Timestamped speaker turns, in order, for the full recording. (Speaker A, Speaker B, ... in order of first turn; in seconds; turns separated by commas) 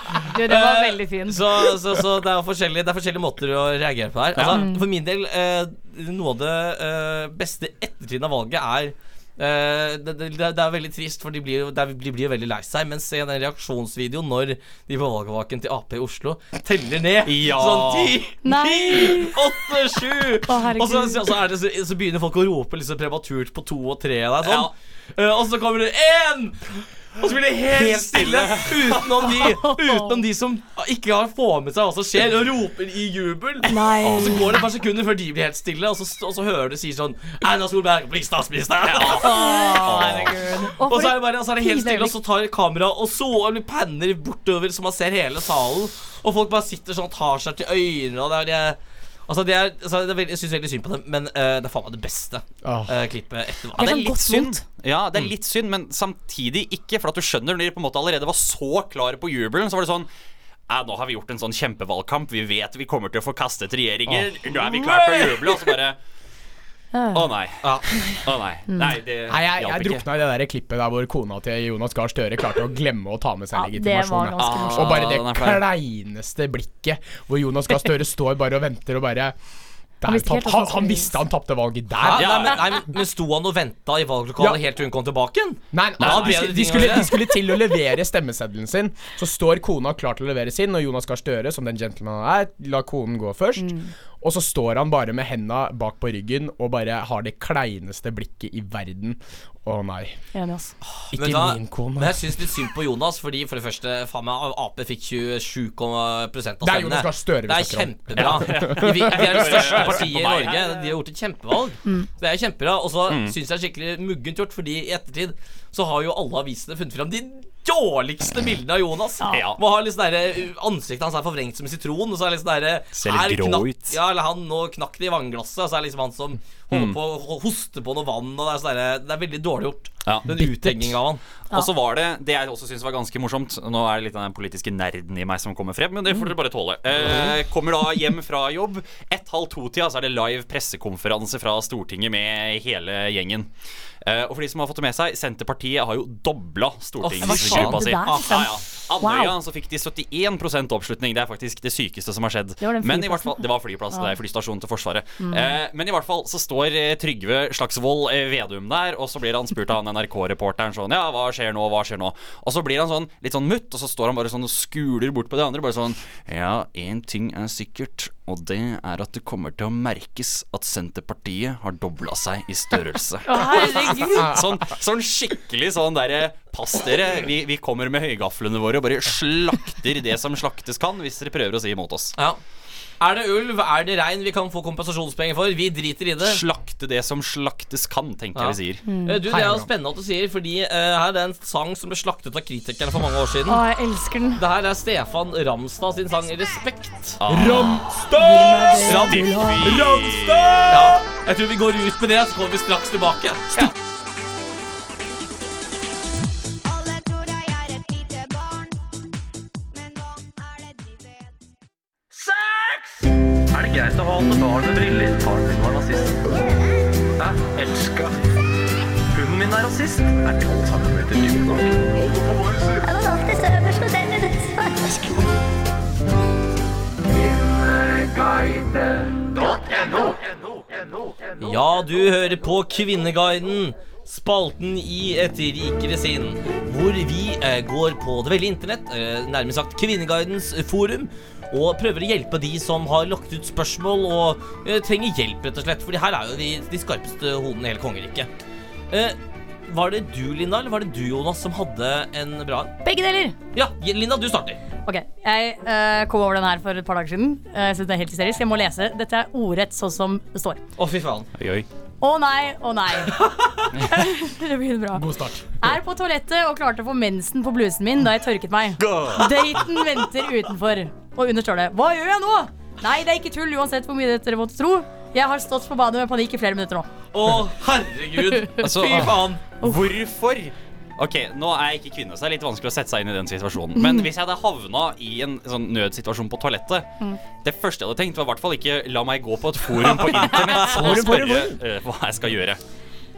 Speaker A: 0.3-1.4, Speaker B: 0.4-54.0, Speaker C: 4.3-4.7, Speaker A: 4.5-4.8, Speaker C: 17.2-18.2, Speaker A: 18.4-19.4, Speaker A: 20.5-21.2, Speaker C: 24.4-24.7, Speaker C: 27.7-29.3, Speaker A: 29.4-30.2, Speaker A: 33.7-34.5, Speaker C: 38.9-40.4, Speaker A: 39.1-42.2, Speaker D: 52.6-53.0, Speaker A: 53.8-54.6, Speaker C: 53.8-60.1, Speaker C: 60.7-66.0, Speaker B: 64.5-65.7, Speaker A: 66.9-67.2, Speaker C: 67.1-67.7, Speaker B: 67.6-68.2, Speaker C: 68.2-70.0, Speaker D: 69.3-79.4, Speaker A: 73.5-75.0, Speaker C: 74.4-75.6, Speaker D: 80.0-82.5, Speaker A: 80.0-81.2, Speaker B: 82.0-87.2, Speaker C: 82.1-82.8, Speaker D: 85.7-100.2, Speaker C: 86.0-86.5, Speaker A: 93.6-93.9, Speaker A: 100.3-100.7, Speaker B: 101.0-131.2, Speaker D: 101.1-102.6, Speaker D: 106.6-109.8, Speaker C: 108.2-111.0, Speaker C: 113.1-113.4, Speaker C: 119.3-119.6, Speaker C: 123.0-124.0, Speaker C: 126.7-127.0, Speaker C: 130.1-130.7, Speaker C: 131.5-143.5, Speaker B: 137.0-137.3, Speaker C: 144.0-182.2, Speaker B: 147.0-148.4, Speaker A: 147.2-149.3, Speaker A: 152.6-154.1, Speaker A: 155.2-155.5, Speaker A: 173.3-174.4, Speaker B: 183.0-186.4, Speaker C: 186.2-188.8, Speaker B: 188.3-193.6, Speaker A: 188.8-189.2, Speaker D: 189.3-189.7, Speaker A: 193.5-194.4, Speaker B: 194.4-197.2, Speaker C: 197.2-197.8, Speaker D: 197.3-201.0, Speaker A: 197.4-199.8, Speaker B: 198.8-200.0, Speaker C: 199.1-200.8, Speaker B: 200.7-203.7, Speaker B: 212.2-212.9, Speaker B: 213.5-216.2, Speaker E: 216.4-216.6, Speaker B: 217.2-218.1, Speaker B: 219.1-221.7, Speaker E: 222.8-224.9, Speaker B: 231.4-248.3, Speaker B: 248.9-252.8, Speaker A: 252.8-253.4, Speaker B: 253.5-254.6, Speaker A: 254.8-260.6, Speaker B: 260.8-261.3, Speaker C: 261.4-261.7, Speaker A: 262.0-263.2, Speaker B: 263.2-263.7, Speaker A: 263.8-265.1, Speaker D: 264.9-265.5, Speaker A: 265.6-276.9, Speaker C: 268.8-269.6, Speaker B: 277.1-279.4, Speaker A: 278.4-278.7, Speaker C: 278.6-286.9, Speaker A: 279.6-279.9, Speaker A: 283.8-284.1, Speaker C: 287.4-292.6, Speaker B: 289.9-291.1, Speaker D: 290.6-291.6